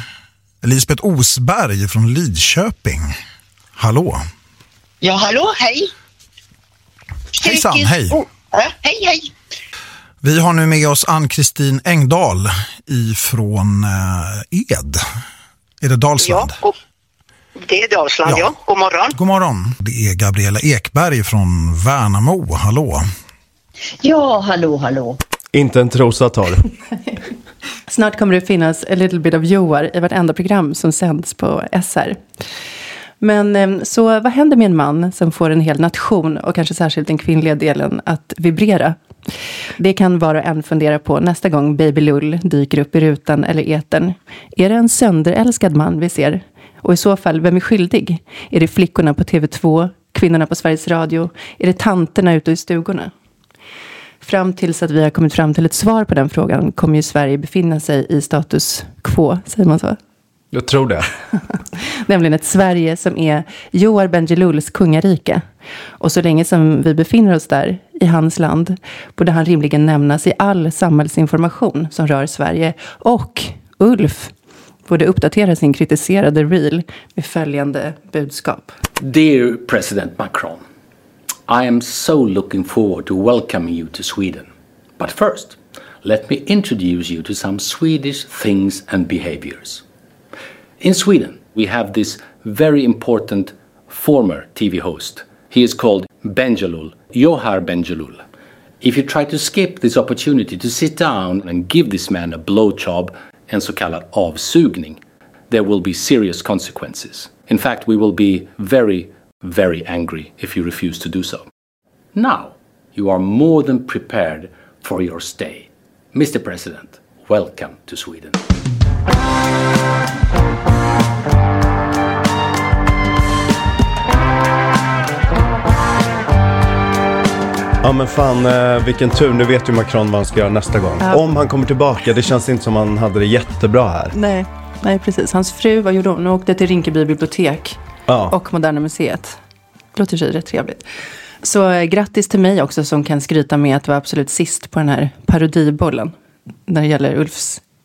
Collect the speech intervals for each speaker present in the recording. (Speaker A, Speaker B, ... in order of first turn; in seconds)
Speaker A: 0.6-3.1, 3.8-4.2, 7.4-8.2, 10.2-15.0, 15.8-16.6, 18.2-18.5, 19.1-23.0
Speaker B: 5.0-5.9, 7.3-9.3, 16.2-16.7, 17.6-19.1, 24.0-25.2
Speaker C: 25.5-26.6, 60.5-61.1, 127.8-134.1, 138.1-138.3
Speaker D: 27.9-32.2, 33.2-39.0, 39.8-53.1, 54.2-60.0, 61.8-65.4, 66.0-74.3, 74.9-78.7, 134.1-137.8, 138.3-139.4, 139.9-140.8, 141.4-146.1, 146.7-147.6
Speaker E: 79.0-80.6, 81.5-89.8, 90.8-98.2, 98.8-111.5, 112.1-118.4